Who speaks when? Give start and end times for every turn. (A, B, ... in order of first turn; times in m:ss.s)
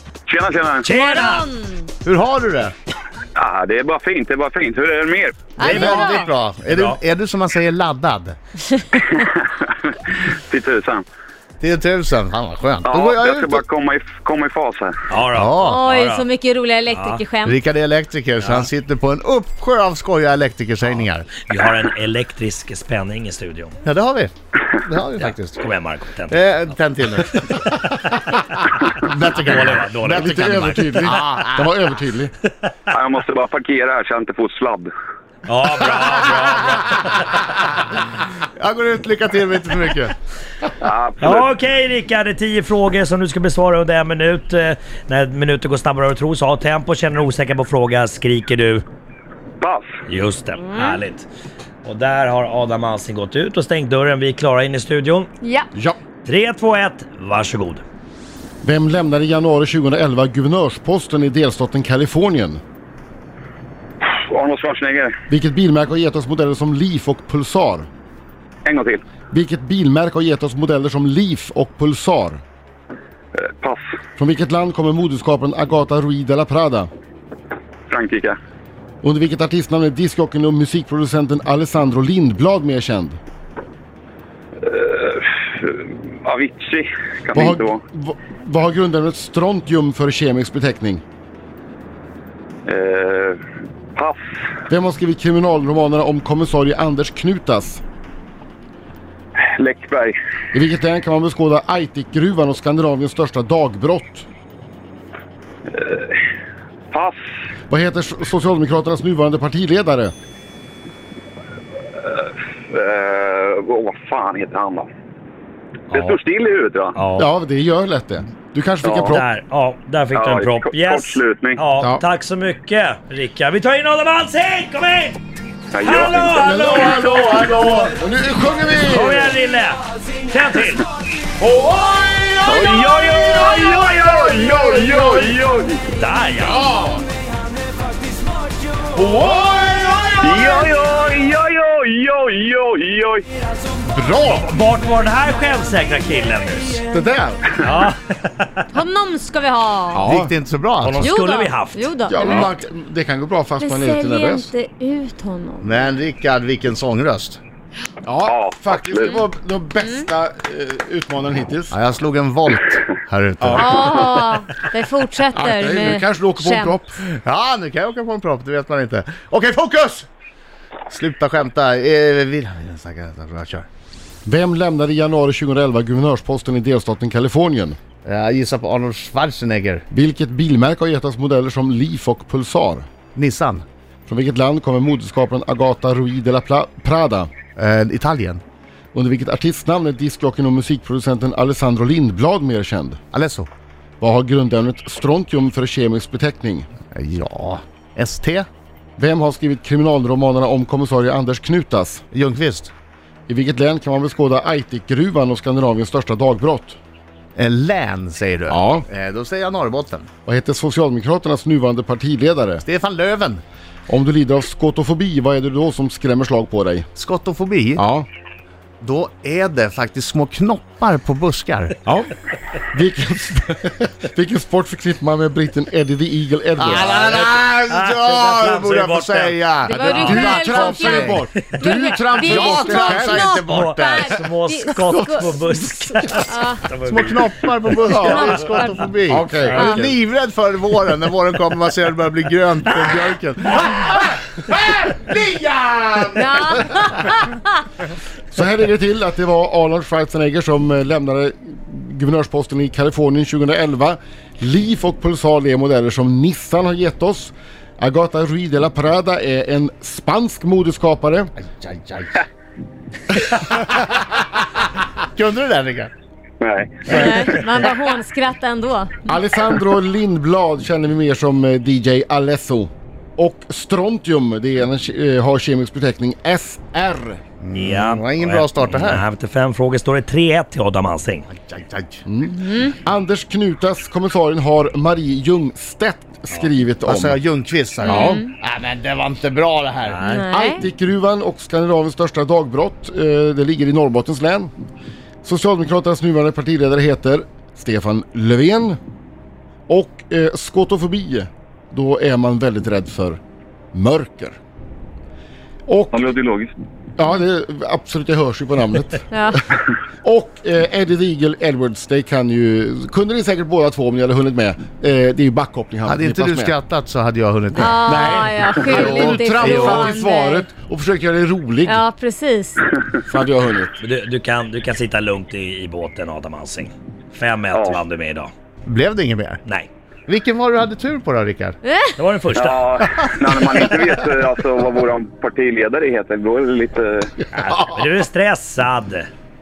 0:00.3-0:00.9 A
0:00.8-0:01.5 B
0:01.0-0:01.9 C
0:02.0-0:02.8 D
0:03.4-0:05.5 A
0:05.6-0:06.3 C
0:05.6-0:07.0 B
0:05.6-0:08.4 D
0:09.0-0:11.0 A
0:11.6-0:13.6 D
0:12.8-0:15.0 A
0:15.1-0:16.3 B
0:15.4-0:15.8 D
0:15.6-0:17.6 C
0:16.9-0:17.2 B
0:17.4-0:21.3 D
0:18.4-0:18.7 B
0:21.5-0:23.8 B
0:23.8-0:25.7 D
0:25.2-0:26.7 B
0:26.3-0:27.4 D
0:27.3-0:28.4 B
0:29.0-0:31.7 D
0:29.2-0:31.4 B
0:30.1-0:32.3 E
0:32.9-0:34.9 A
0:35.5-0:37.1 B
0:38.6-0:40.2 D
0:40.8-0:41.5 A
0:41.2-0:48.8 B
0:49.6-0:50.0 A
0:50.1-0:51.3 B
0:50.7-0:51.0 C
0:51.8-0:55.3 B
0:55.4-0:55.7 C
0:56.2-0:57.8 B
0:58.6-1:02.6 E
1:04.0-1:05.2 A
1:05.3-1:07.9 E
1:08.6-1:09.0 A
1:09.3-1:12.4 E
1:13.4-1:13.8 A
1:14.2-1:16.9 E
1:17.9-1:18.4 A
1:19.0-1:23.2 E
1:24.6-1:27.8 A
1:27.3-1:31.0 E
1:32.7-1:33.4 A
1:34.7-1:37.8 E
1:39.4-1:40.1 A
1:40.5-1:44.3 E
1:45.7-1:46.2 A
1:46.9-1:47.2 A
1:47.7-1:50.1 E
1:52.0-1:54.9 A
1:55.9-1:56.2 B
1:55.9-1:57.0 A
1:57.0-1:57.3 B
1:57.2-1:59.2 E
1:58.8-1:59.2 A
1:59.1-2:05.2 B
2:00.2-2:01.6 A
2:05.7-2:07.3 A
2:05.8-2:07.4 B
2:06.4-2:09.4 E
2:08.8-2:10.9 B
2:11.4-2:15.4 E
2:12.4-2:15.9 A
2:16.0-2:16.6 B
2:16.4-2:17.0 E
2:19.0-2:20.6 E
2:20.2-2:23.3 A
2:23.9-2:24.5 D
2:24.2-2:26.8 B
2:26.9-2:27.6 E
2:27.6-2:28.5 B
2:28.7-2:30.1 C
2:30.0-2:30.3 E
2:30.0-2:31.1 D
2:30.8-2:32.4 B
2:31.0-2:32.5 C
2:32.1-2:34.5 E
2:33.6-2:35.9 C
2:35.6-2:37.4 D
2:38.0-2:41.8 E
2:38.2-2:39.2 A
2:39.8-2:40.1 C
2:41.7-2:43.8 D
2:43.4-2:44.1 E
2:43.6-2:46.8 C
2:45.3-2:47.0 E
2:47.0-2:50.1 D
2:50.9-2:53.7 D
2:54.3-2:57.8 E
2:58.0-2:59.8 D
2:59.9-3:02.9 E
3:03.2-3:03.7 D
3:04.1-3:07.3 E
3:07.6-3:08.4 D
3:08.9-3:13.0 E
3:13.1-3:13.5 D
3:14.0-3:16.7 E
3:16.9-3:18.5 D
3:19.0-3:22.0 E
3:22.1-3:22.7 D
3:23.3-3:26.8 E
3:27.4-3:30.1 D
3:28.5-3:28.9 E
3:30.2-3:32.6 E
3:32.6-3:33.4 D
3:33.9-3:36.9 E
3:37.0-3:37.9 D
3:37.8-3:38.1 E
3:38.8-3:41.8 D
3:41.9-3:42.2 E
3:42.7-3:47.3 E
3:46.6-3:51.3 D
3:46.8-3:49.9 B
3:49.6-3:56.7 C
3:49.7-3:53.4 E
3:52.2-3:54.2 D
3:53.4-3:57.9 B
3:56.9-4:06.6 D
3:57.9-3:58.5 E
3:57.9-3:58.9 C
3:59.1-3:59.8 E
3:59.3-3:59.9 B
3:59.6-3:59.9 C
4:06.2-4:07.4 C
4:08.3-4:21.3 E
4:21.4-4:22.2 D
4:23.4-4:23.7 D
4:25.1-4:25.9 D
4:26.4-4:27.4 A
4:26.9-4:29.1 C
4:29.0-4:37.2 E
4:37.4-4:39.0 D
4:37.5-4:41.3 B
4:41.3-4:42.0 D
4:42.1-4:47.2 E
4:46.8-4:50.0 D
4:47.8-4:48.3 C
4:47.9-4:48.2 E
4:49.9-4:50.3 B
4:50.0-4:50.6 C
4:50.3-4:54.5 E
4:55.2-4:58.8 E
4:59.7-5:03.2 E
5:03.7-5:04.4 E
5:05.7-5:06.1 E
5:05.9-5:06.5 A
5:07.0-5:09.1 E
5:09.1-5:09.4 C
5:10.0-5:16.6 E
5:15.8-5:17.9 D
5:17.5-5:20.5 C
5:17.8-5:21.8 E
5:18.7-5:19.9 D
5:21.7-5:22.7 C
5:23.1-5:23.8 E
5:23.8-5:28.3 B
5:27.5-5:27.8 A
5:28.7-5:29.4 D
5:30.1-5:31.6 D
5:31.6-5:32.0 C
5:32.0-5:32.7 B
5:32.4-5:37.1 A
5:33.0-5:33.3 D
5:37.3-5:39.1 B